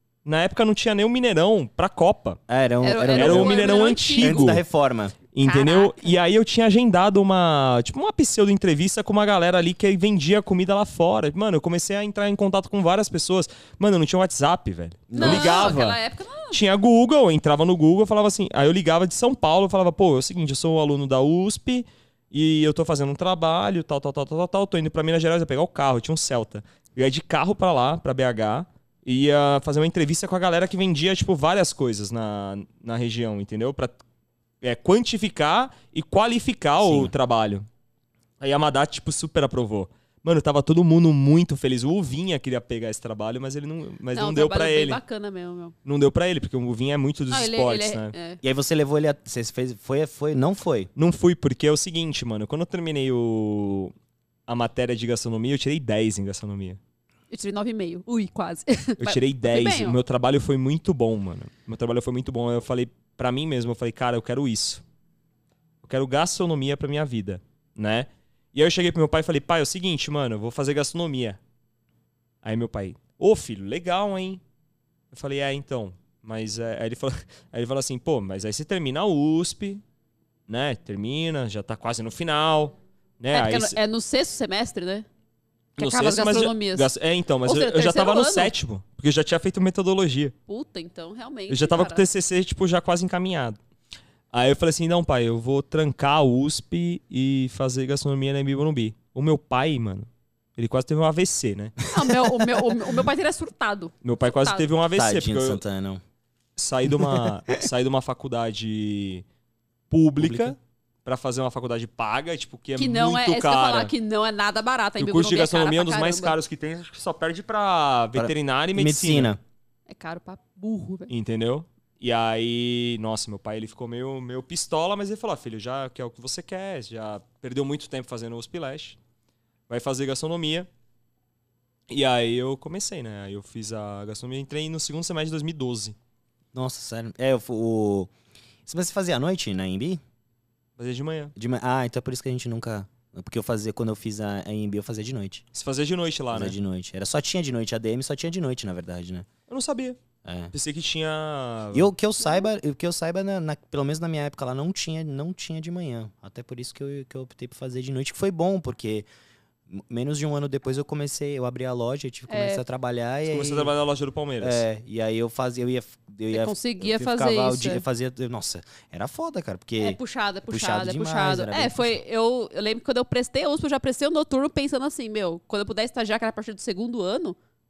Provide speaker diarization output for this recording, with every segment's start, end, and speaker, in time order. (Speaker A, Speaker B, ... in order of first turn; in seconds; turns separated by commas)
Speaker A: 0.2-2.4, Speaker B: 2.5-5.2, Speaker C: 2.8-4.6, Speaker A: 3.1-4.6, Speaker A: 5.3-16.0, Speaker C: 5.4-6.1, Speaker B: 15.1-15.7, Speaker C: 15.2-16.6, Speaker A: 16.5-34.0, Speaker A: 34.6-37.7, Speaker B: 36.8-37.1, Speaker A: 38.4-45.0, Speaker C: 44.1-45.8, Speaker A: 45.9-48.1, Speaker C: 47.3-48.4, Speaker B: 48.4-50.9, Speaker A: 51.0-53.9, Speaker A: 54.5-56.8, Speaker C: 57.3-60.0, Speaker A: 59.0-64.8, Speaker A: 65.8-71.4, Speaker A: 72.4-74.4, Speaker A: 75.1-79.8, Speaker A: 80.5-83.8, Speaker C: 83.3-85.1, Speaker A: 85.8-90.3, Speaker C: 85.8-86.9, Speaker C: 87.5-88.5, Speaker C: 90.5-92.0, Speaker A: 91.5-93.6, Speaker A: 94.3-101.8, Speaker B: 101.8-102.9, Speaker C: 101.9-104.7, Speaker A: 104.0-105.6, Speaker B: 105.0-106.0, Speaker A: 106.6-109.2, Speaker B: 106.9-107.7, Speaker A: 109.9-113.9, Speaker B: 110.2-110.5, Speaker C: 112.8-116.4, Speaker A: 115.0-119.4, Speaker B: 118.2-119.4, Speaker C: 119.9-121.1, Speaker A: 121.1-129.0, Speaker A: 129.7-130.7, Speaker A: 131.9-136.0, Speaker B: 136.5-138.1, Speaker B: 138.7-140.0, Speaker A: 140.8-141.3, Speaker B: 141.4-145.4, Speaker A: 145.5-146.6, Speaker B: 146.3-149.3, Speaker A: 149.5-150.0, Speaker B: 150.2-150.5, Speaker A: 150.5-151.9, Speaker B: 151.7-159.1, Speaker B: 159.7-163.7, Speaker C: 162.3-162.6, Speaker A: 163.3-164.6, Speaker B: 164.4-172.0, Speaker C: 166.3-167.8, Speaker C: 169.8-177.4